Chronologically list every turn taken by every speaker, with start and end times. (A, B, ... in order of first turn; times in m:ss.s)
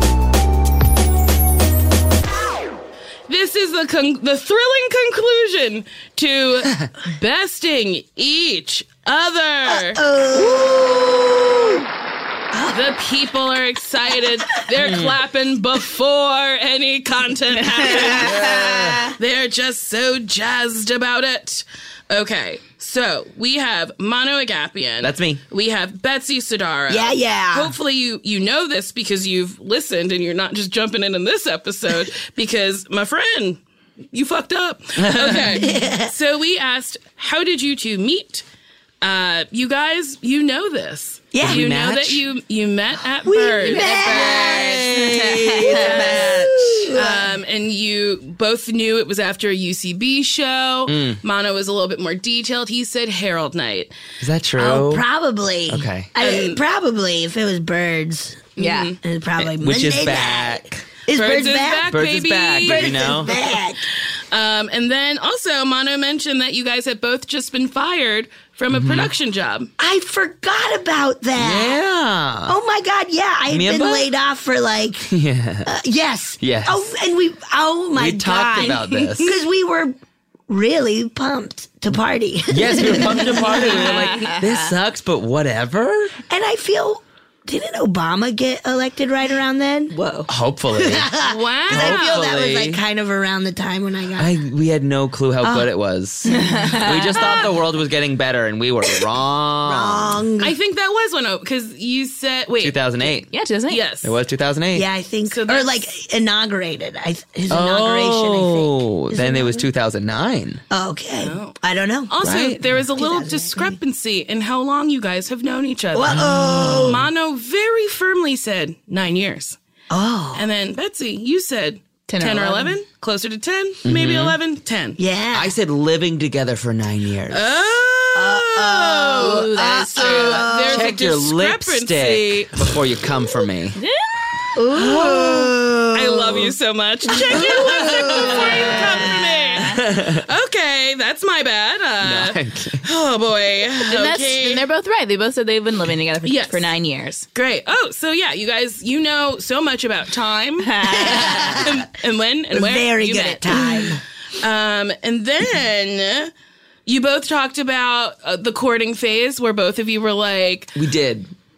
0:03.3-0:10.0 A
0:09.9-0:11.8 B
0:12.5-0:12.8 B
0:12.7-0:18.4 A
0:14.8-0:15.1 C
0:17.8-0:18.5 D
0:18.2-0:19.0 C
0:19.2-0:33.6 A
0:25.0-0:25.4 C
0:26.9-0:27.7 B
0:34.1-0:38.4 A
0:35.0-0:35.6 C
0:35.6-0:36.1 B
0:39.0-0:53.9 A
0:41.3-0:41.7 B
0:41.4-0:42.2 C
0:43.2-0:47.3 B
0:43.6-0:46.3 D
0:50.9-0:51.2 C
0:54.2-0:55.0 C
0:54.6-1:01.9 B
0:55.7-0:56.1 C
0:56.2-0:56.6 A
0:58.6-0:59.0 D
0:58.6-0:59.0 A
0:59.4-1:00.8 C
1:01.1-1:03.3 A
1:01.9-1:03.4 C
1:02.6-1:03.8 B
1:04.3-1:09.7 A
1:08.7-1:09.1 C
1:09.8-1:11.8 B
1:11.4-1:12.6 C
1:12.5-1:15.1 B
1:13.5-1:14.1 C
1:15.1-1:15.7 C
1:15.6-1:19.9 B
1:16.4-1:16.8 C
1:18.0-1:19.3 C
1:19.0-1:19.2 A
1:20.5-1:24.0 B
1:22.5-1:26.2 C
1:23.8-1:24.6 D
1:26.3-1:29.9 B
1:29.9-1:30.3 D
1:30.3-1:31.1 C
1:30.7-1:34.3 B
1:31.2-1:32.2 A
1:31.7-1:32.8 C
1:34.2-1:40.2 C
1:35.4-1:35.7 B
1:36.4-1:37.0 D
1:39.6-1:40.6 B
1:40.4-1:43.0 A
1:42.6-1:43.3 C
1:43.3-1:43.8 D
1:43.7-1:44.1 A
1:44.0-1:44.9 C
1:44.7-1:49.6 B
1:45.3-1:45.8 A
1:47.5-1:50.6 C
1:50.7-1:52.2 B
1:51.2-1:59.6 A
1:52.2-1:52.6 C
1:52.9-1:53.8 B
1:55.9-1:57.0 B
1:56.1-1:57.0 C
1:59.9-2:00.4 B
2:00.3-2:05.0 A
2:02.1-2:02.7 D
2:03.8-2:04.4 C
2:05.0-2:05.5 B
2:05.3-2:07.4 C
2:07.3-2:12.8 A
2:08.1-2:10.9 B
2:09.2-2:10.5 D
2:10.7-2:13.8 C
2:13.8-2:14.1 D
2:14.5-2:16.5 B
2:14.8-2:15.0 C
2:15.0-2:24.6 A
2:17.2-2:18.7 B
2:17.5-2:18.5 C
2:18.2-2:19.8 D
2:19.6-2:20.2 C
2:22.0-2:22.8 C
2:23.9-2:27.2 D
2:26.2-2:26.7 A
2:27.3-2:36.3 A
2:30.6-2:31.3 D
2:30.9-2:31.7 B
2:32.5-2:34.0 B
2:36.8-2:40.8 A
2:40.8-2:41.3 C